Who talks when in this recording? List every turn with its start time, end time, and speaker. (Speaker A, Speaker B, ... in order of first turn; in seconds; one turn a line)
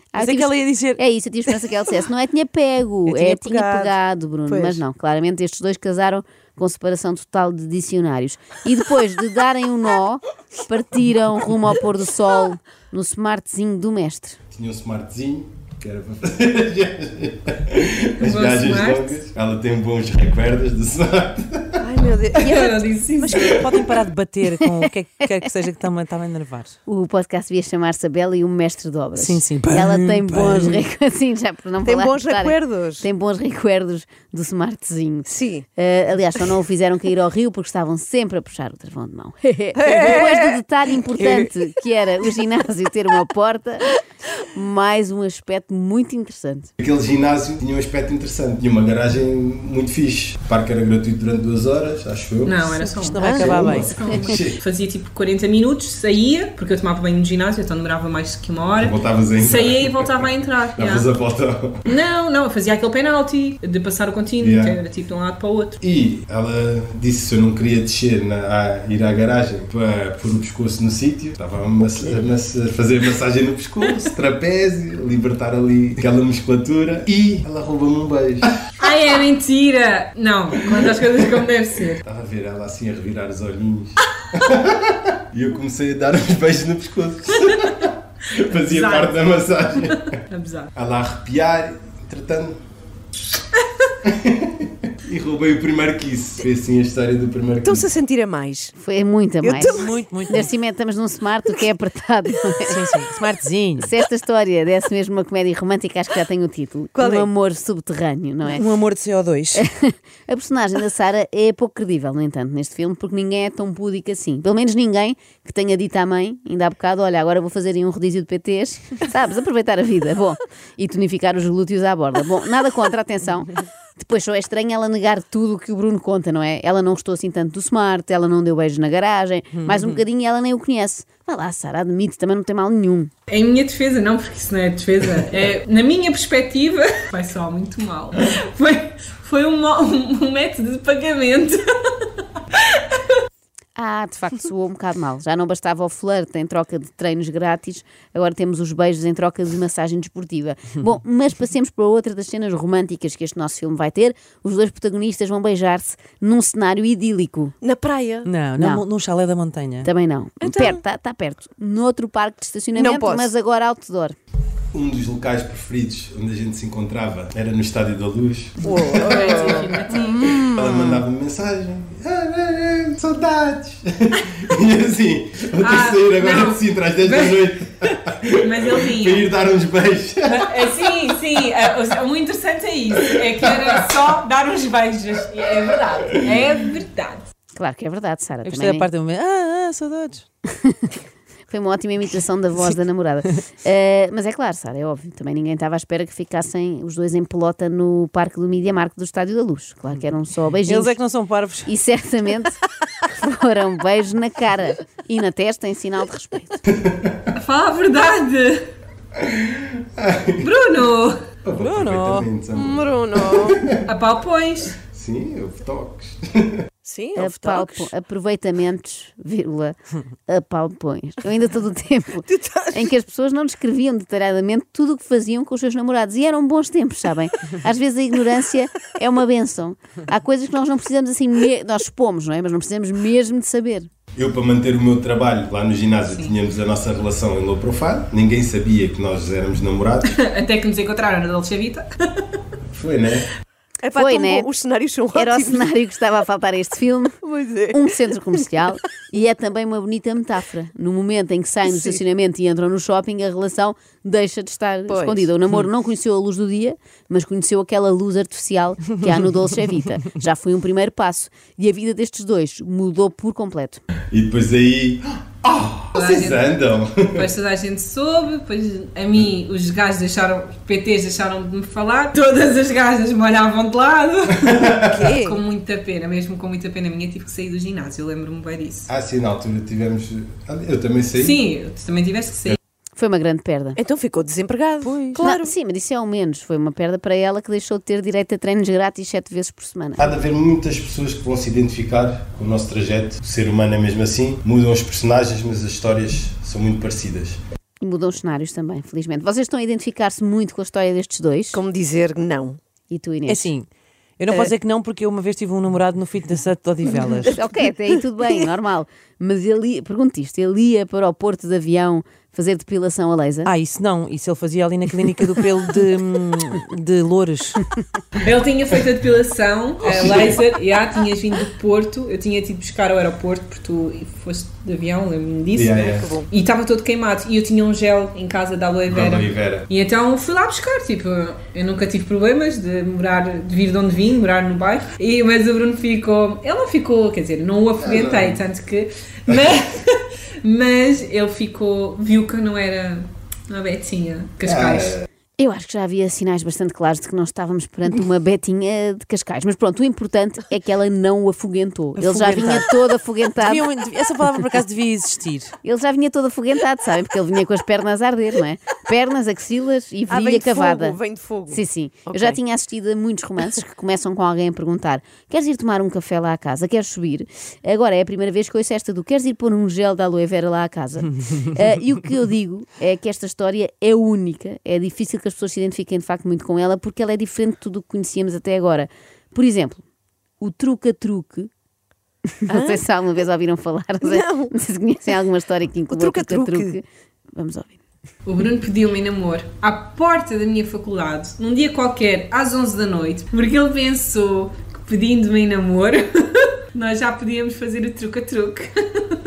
Speaker A: 0.1-14.4
Speaker B: 0.1-1.0
Speaker C: 3.0-3.9
Speaker B: 3.2-3.6
Speaker C: 4.5-4.8
Speaker D: 14.5-21.8
Speaker E: 18.2-19.2
Speaker C: 21.8-23.5
Speaker E: 22.3-23.8
Speaker B: 23.2-26.7
Speaker A: 26.9-46.7
Speaker B: 29.1-30.8
Speaker C: 31.8-33.0
Speaker C: 35.2-35.6
Speaker C: 39.8-40.6
Speaker C: 41.1-41.5
Speaker D: 46.8-52.7
Speaker E: 52.4-61.1
Speaker B: 52.9-53.9
Speaker C: 53.2-53.8
Speaker D: 53.3-54.6
Speaker D: 58.8-60.2
Speaker D: 60.8-61.8
Speaker E: 61.9-65.8
Speaker D: 64.4-64.8
Speaker D: 65.8-78.6
Speaker E: 78.8-82.0
Speaker D: 82.0-90.2
Speaker E: 87.4-87.7
Speaker E: 88.4-90.7
Speaker D: 90.7-92.6
Speaker D: 94.0-97.9
Speaker C: 97.6-98.7
Speaker A: 98.8-102.8
Speaker C: 99.4-100.1
Speaker B: 99.7-100.5
Speaker B: 102.7-103.9
Speaker A: 103.8-108.7
Speaker C: 106.9-107.3
Speaker B: 108.5-109.6
Speaker A: 109.5-133.1
Speaker B: 129.5-130.0
Speaker E: 133.3-142.8
Speaker A: 143.8-157.5
Speaker C: 157.6-158.3
Speaker B: 158.2-159.9
Speaker A: 158.6-158.8
Speaker A: 159.8-164.2
Speaker C: 160.4-160.8
Speaker C: 162.7-163.3
Speaker D: 164.7-180.5
Speaker C: 168.6-171.0
Speaker E: 168.9-170.2
Speaker E: 175.6-179.3
Speaker E: 180.2-187.2
Speaker D: 186.1-186.4
Speaker A: 187.5-188.9
Speaker B: 188.4-190.2
Speaker A: 190.6-190.8
Speaker A: 191.5-201.0
Speaker B: 200.6-201.7
Speaker A: 201.6-206.6
Speaker D: 206.7-207.3
Speaker E: 207.3-208.7
Speaker D: 209.2-210.4
Speaker E: 210.4-211.2
Speaker D: 211.4-213.9
Speaker B: 211.6-212.3
Speaker C: 212.5-213.6
Speaker E: 213.8-214.7
Speaker D: 214.8-216.6
Speaker C: 216.8-217.9
Speaker A: 217.2-219.8
Speaker A: 220.3-233.9
Speaker C: 222.3-222.9
Speaker D: 234.2-240.1
Speaker E: 236.1-236.3
Speaker E: 240.0-242.2
Speaker D: 242.7-243.3
Speaker C: 243.8-245.7
Speaker A: 243.9-244.5
Speaker A: 245.1-247.2
Speaker C: 247.2-247.9
Speaker A: 247.7-263.8
Speaker C: 251.7-252.0
Speaker C: 254.9-255.3
Speaker D: 264.1-267.3
Speaker E: 265.9-266.5
Speaker E: 267.1-278.9
Speaker D: 274.4-275.0
Speaker C: 274.8-275.4
Speaker D: 278.9-281.4
Speaker E: 281.1-282.6
Speaker A: 283.0-283.8
Speaker C: 283.8-285.5
Speaker B: 284.8-285.3
Speaker A: 285.2-290.1
Speaker D: 290.0-297.4
Speaker A: 297.8-301.6
Speaker C: 301.5-302.6
Speaker A: 302.9-303.5
Speaker B: 303.3-303.7
Speaker B: 304.2-307.3
Speaker C: 306.9-308.4
Speaker A: 307.2-313.5
Speaker B: 313.4-317.6
Speaker E: 318.2-345.0
Speaker D: 319.8-320.3
Speaker D: 325.5-326.1
Speaker C: 325.8-326.3
Speaker D: 328.9-329.7
Speaker D: 337.8-338.4
Speaker D: 344.4-345.1
Speaker A: 345.4-353.7
Speaker B: 352.0-352.8
Speaker B: 353.4-355.5
Speaker A: 355.6-361.0
Speaker C: 360.1-362.4
Speaker A: 361.5-379.8
Speaker A: 380.4-381.5
Speaker A: 382.4-386.8
Speaker C: 382.5-382.8
Speaker C: 384.0-384.5
Speaker C: 385.9-386.8
Speaker A: 387.3-387.8
Speaker E: 388.2-399.1